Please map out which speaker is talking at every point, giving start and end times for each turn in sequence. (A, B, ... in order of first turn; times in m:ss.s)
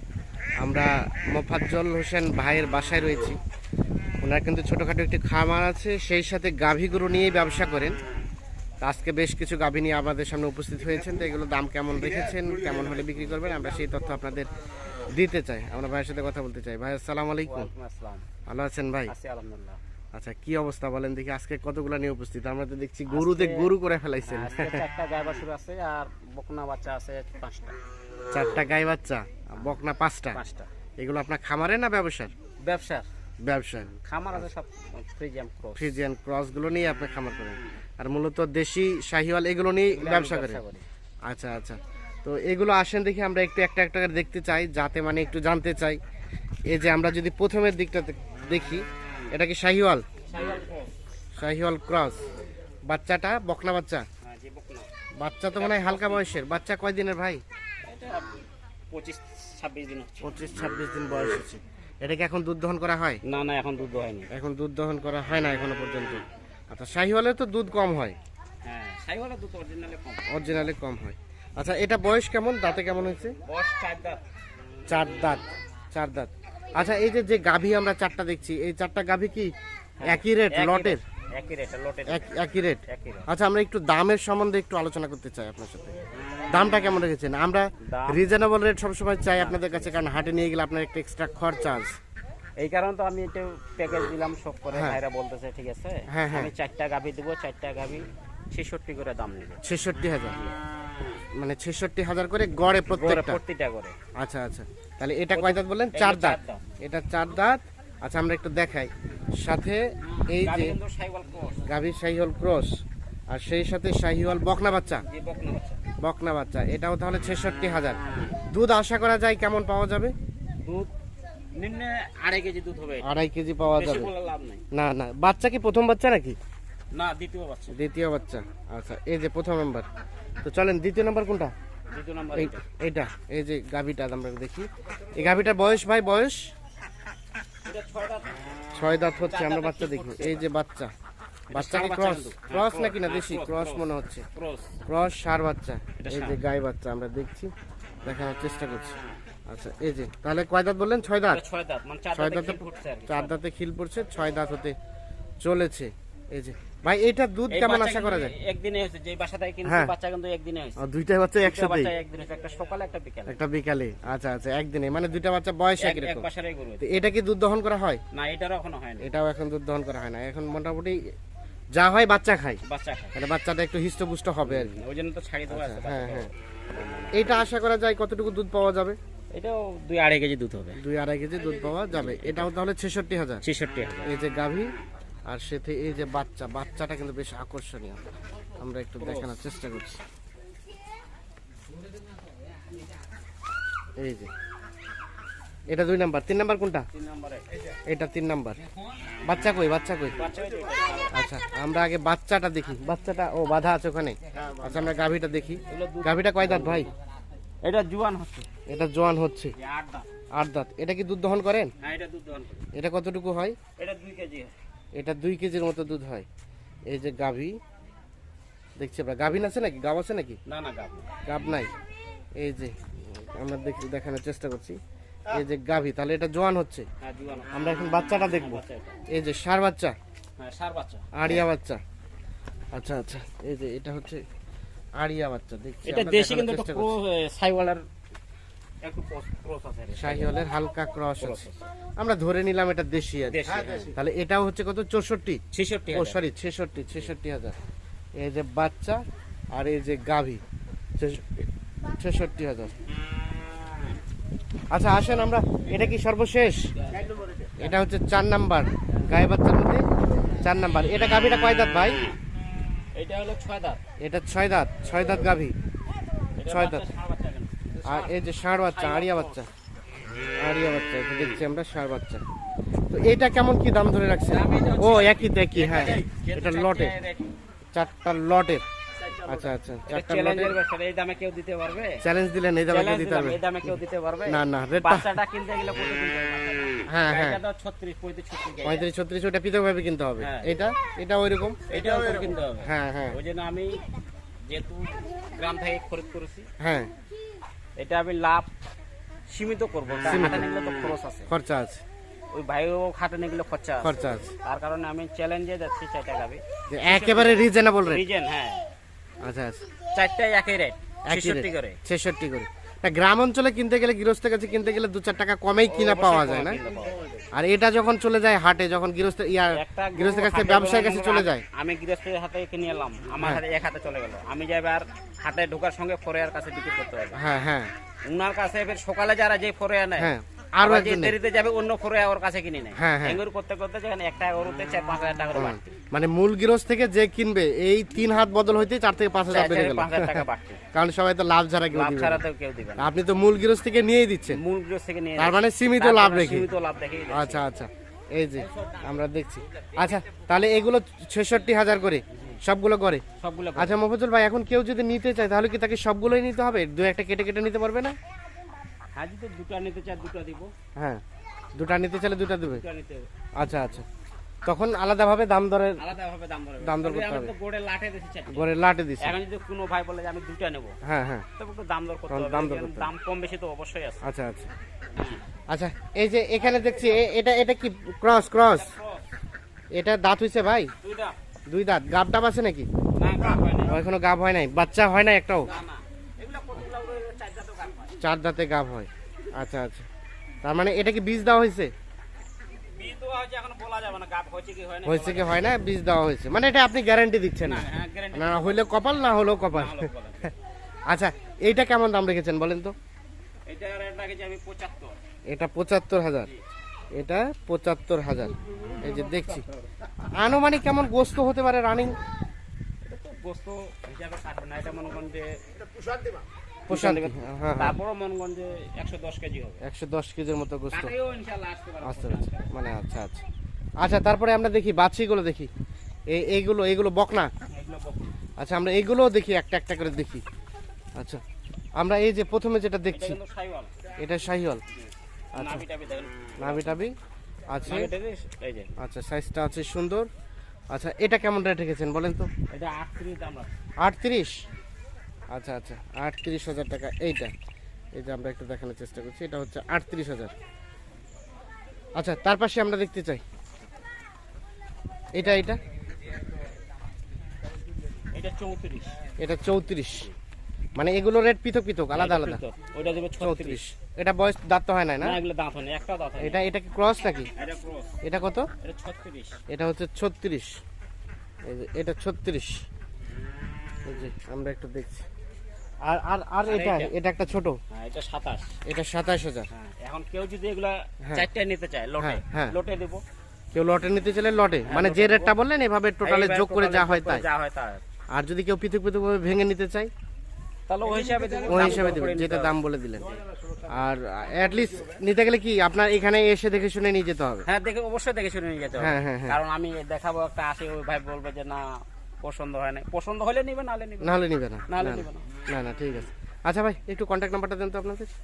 0:00.6-0:03.4 A
0:04.2-0:08.0 A
0:08.8-0:14.5 A
0:15.1-0:17.7 A
0:17.5-0:18.2 B
0:18.5-0:19.1 A
0:19.1-0:19.8 B
0:20.1-0:24.8 A
0:23.1-0:23.7 B
0:24.2-0:27.8 B
0:28.3-0:30.4 A
0:30.3-0:30.7 B
0:31.0-0:32.3 A
0:32.6-0:33.1 B
0:33.4-0:34.4 A
0:34.0-0:36.0 B
0:35.7-0:40.6 A
0:39.9-0:40.8 B
0:41.2-0:46.0 A
0:46.7-0:50.0 A
0:50.2-0:50.9 B
0:51.4-0:52.3 A
0:52.9-0:54.0 A
0:54.2-0:54.9 B
0:55.2-0:57.4 A
0:55.5-0:56.3 B
0:57.8-0:58.3 B
0:58.9-1:00.3 B
1:00.2-1:03.2 A
1:03.2-1:04.3 B
1:04.3-1:08.2 A
1:08.6-1:10.3 B
1:10.3-1:13.4 A
1:13.4-1:14.2 B
1:14.9-1:19.5 A
1:20.0-1:22.3 B
1:20.0-1:21.0 A
1:22.1-1:26.0 A
1:22.9-1:23.3 B
1:26.5-1:31.9 A
1:27.8-1:28.2 B
1:29.4-1:30.0 B
1:32.6-1:39.6 B
1:34.7-1:35.0 A
1:36.1-1:36.5 A
1:39.6-1:40.4 A
1:41.4-1:43.4 A
1:42.9-1:44.0 B
1:44.2-1:50.8 A
1:45.3-1:46.7 B
1:50.0-1:51.7 B
1:51.6-1:52.8 A
1:53.3-1:55.0 A
1:55.1-1:55.8 B
1:56.0-2:00.1 A
2:00.6-2:00.9 B
2:01.6-2:03.1 B
2:03.0-2:04.1 A
2:03.7-2:04.6 B
2:04.7-2:06.4 A
2:06.9-2:07.8 B
2:07.7-2:09.9 A
2:10.4-2:11.5 A
2:11.9-2:12.6 B
2:12.3-2:16.5 A
2:17.6-2:18.5 B
2:18.7-2:20.9 A
2:19.2-2:20.5 B
2:21.5-2:24.8 B
2:21.5-2:24.2 A
2:24.9-2:27.5 A
2:26.0-2:26.4 B
2:28.0-2:29.0 A
2:29.5-2:31.4 A
2:31.3-2:33.4 B
2:32.1-2:34.8 A
2:35.4-2:38.3 A
2:37.5-2:40.8 B
2:39.6-2:39.9 A
2:40.8-2:41.9 A
2:41.4-2:43.4 B
2:43.3-2:46.2 A
2:45.8-2:46.8 B
2:46.8-2:48.0 A
2:48.1-2:49.1 B
2:49.0-2:51.1 A
2:51.7-2:52.6 A
2:52.6-2:53.2 B
2:53.1-2:54.7 A
2:54.4-2:57.3 B
2:55.5-2:56.3 A
2:57.1-2:59.0 A
2:59.4-3:00.8 B
3:00.8-3:03.4 A
3:01.9-3:02.5 B
3:03.4-3:04.1 B
3:04.0-3:04.7 A
3:05.2-3:10.0 A
3:09.0-3:09.3 B
3:14.0-3:14.3 A
3:15.7-3:16.9 A
3:16.9-3:17.4 B
3:17.9-3:18.6 A
3:19.2-3:20.2 A
3:20.2-3:21.2 B
3:21.1-3:26.9 A
3:25.7-3:26.9 B
3:27.6-3:28.5 B
3:28.7-3:29.5 A
3:29.6-3:30.1 B
3:30.3-3:31.7 A
3:31.8-3:32.6 B
3:32.7-3:33.6 A
3:33.8-3:34.5 B
3:34.9-3:36.2 A
3:36.9-3:37.6 A
3:38.8-3:40.4 A
3:40.5-3:41.1 B
3:41.2-3:41.7 A
3:42.4-3:44.8 A
3:45.3-3:46.9 A
3:47.0-3:49.0 B
3:47.5-3:50.0 A
3:50.4-3:51.4 B
3:51.1-3:51.8 A
3:52.7-3:54.2 A
3:55.0-3:56.9 A
3:55.8-3:57.8 B
3:58.8-4:00.4 B
4:00.0-4:01.4 A
4:01.2-4:01.6 B
4:02.0-4:05.4 A
4:03.2-4:04.0 B
4:05.5-4:06.2 B
4:05.9-4:07.6 A
4:08.2-4:09.0 A
4:09.5-4:10.4 A
4:11.0-4:11.4 A
4:12.0-4:12.7 A
4:14.7-4:16.7 A
4:16.8-4:17.7 B
4:17.6-4:19.8 A
4:20.4-4:22.0 A
4:22.9-4:23.8 B
4:24.0-4:25.5 A
4:26.4-4:29.4 B
4:26.4-4:26.8 A
4:27.8-4:29.5 A
4:30.3-4:32.2 A
4:32.9-4:36.9 A
4:34.2-4:37.3 B
4:37.7-4:38.6 A
4:39.0-4:42.0 B
4:39.2-4:40.6 A
4:42.0-4:43.8 A
4:42.7-4:48.9 B
4:44.3-4:45.1 A
4:46.9-4:47.4 A
4:48.6-4:53.2 A
4:50.2-4:50.6 B
4:51.7-4:53.8 B
4:54.5-4:56.5 B
4:56.6-4:56.9 A
4:57.8-4:58.5 B
4:59.3-5:01.3 B
5:00.0-5:00.5 A
5:01.3-5:01.8 A
5:02.3-5:08.6 B
5:03.8-5:04.3 A
5:06.7-5:08.0 A
5:09.2-5:09.6 A
5:09.9-5:11.8 B
5:11.1-5:16.6 A
5:15.6-5:17.0 B
5:17.3-5:21.4 A
5:19.5-5:27.2 B
5:27.1-5:27.7 A
5:28.0-5:35.8 B
5:30.0-5:31.2 A
5:32.8-5:33.2 A
5:35.3-5:42.2 A
5:39.3-5:40.6 B
5:41.7-5:42.9 B
5:42.8-5:44.4 A
5:44.3-5:47.4 B
5:45.2-5:46.5 A
5:47.1-5:53.0 A
5:48.4-5:49.0 B
5:49.6-5:50.0 B
5:53.2-5:53.8 B
5:53.6-5:58.0 A
5:58.9-6:00.5 B
6:00.8-6:01.0 A
6:01.6-6:02.6 A
6:02.5-6:03.1 B
6:03.4-6:03.8 A
6:04.4-6:05.8 A
6:05.8-6:08.5 B
6:06.6-6:07.3 A
6:08.3-6:09.2 A
6:09.0-6:10.8 B
6:10.8-6:11.3 A
6:11.4-6:14.0 B
6:12.1-6:12.9 A
6:14.0-6:14.5 A
6:14.9-6:15.2 B
6:15.5-6:18.7 A
6:18.6-6:19.0 B
6:19.7-6:20.7 A
6:20.8-6:21.2 B
6:21.5-6:22.7 A
6:23.0-6:23.8 B
6:23.6-6:25.5 A
6:25.4-6:28.0 B
6:28.0-6:29.8 A
6:30.4-6:31.7 A
6:32.7-6:35.5 B
6:34.8-6:40.3 A
6:37.4-6:38.8 B
6:39.5-6:40.3 B
6:40.9-6:42.7 A
6:43.4-6:44.9 B
6:45.3-6:46.3 A
6:46.9-6:49.5 A
6:50.0-6:52.0 A
6:52.8-6:55.4 B
6:56.7-6:59.6 B
6:56.7-6:57.8 A
6:59.6-7:00.9 A
7:00.7-7:02.5 B
7:01.8-7:03.2 A
7:03.8-7:05.5 A
7:06.1-7:07.3 A
7:07.5-7:08.2 B
7:08.4-7:10.2 A
7:11.0-7:11.2 A
7:11.8-7:13.2 A
7:12.9-7:13.7 B
7:14.0-7:14.6 A
7:14.8-7:16.8 B
7:15.3-7:15.6 A
7:16.4-7:16.9 A
7:17.5-7:17.9 A
7:17.6-7:18.7 B
7:18.8-7:20.1 A
7:20.7-7:22.3 A
7:22.5-7:23.5 B
7:23.8-7:24.4 A
7:25.3-7:27.3 A
7:27.9-7:30.3 A
7:32.0-7:33.2 A
7:35.1-7:35.6 A
7:38.1-7:39.0 B
7:39.2-7:40.1 A
7:40.8-7:42.4 A
7:41.9-7:43.6 B
7:43.2-7:45.2 A
7:45.0-7:46.5 B
7:46.2-7:47.3 A
7:47.3-7:48.0 B
7:48.0-7:48.5 A
7:48.6-7:49.4 B
7:49.5-7:50.6 A
7:51.4-7:52.6 A
7:53.8-7:55.0 A
7:55.8-7:57.6 A
7:56.5-7:56.9 B
7:57.7-7:58.6 B
7:58.6-7:59.5 A
7:59.5-8:03.0 B
8:02.0-8:02.5 A
8:03.5-8:07.2 A
8:04.6-8:05.3 B
8:06.0-8:07.8 B
8:08.1-8:09.9 A
8:10.7-8:12.6 B
8:11.4-8:17.4 A
8:17.4-8:25.3 B
8:18.8-8:19.4 A
8:24.0-8:28.1 A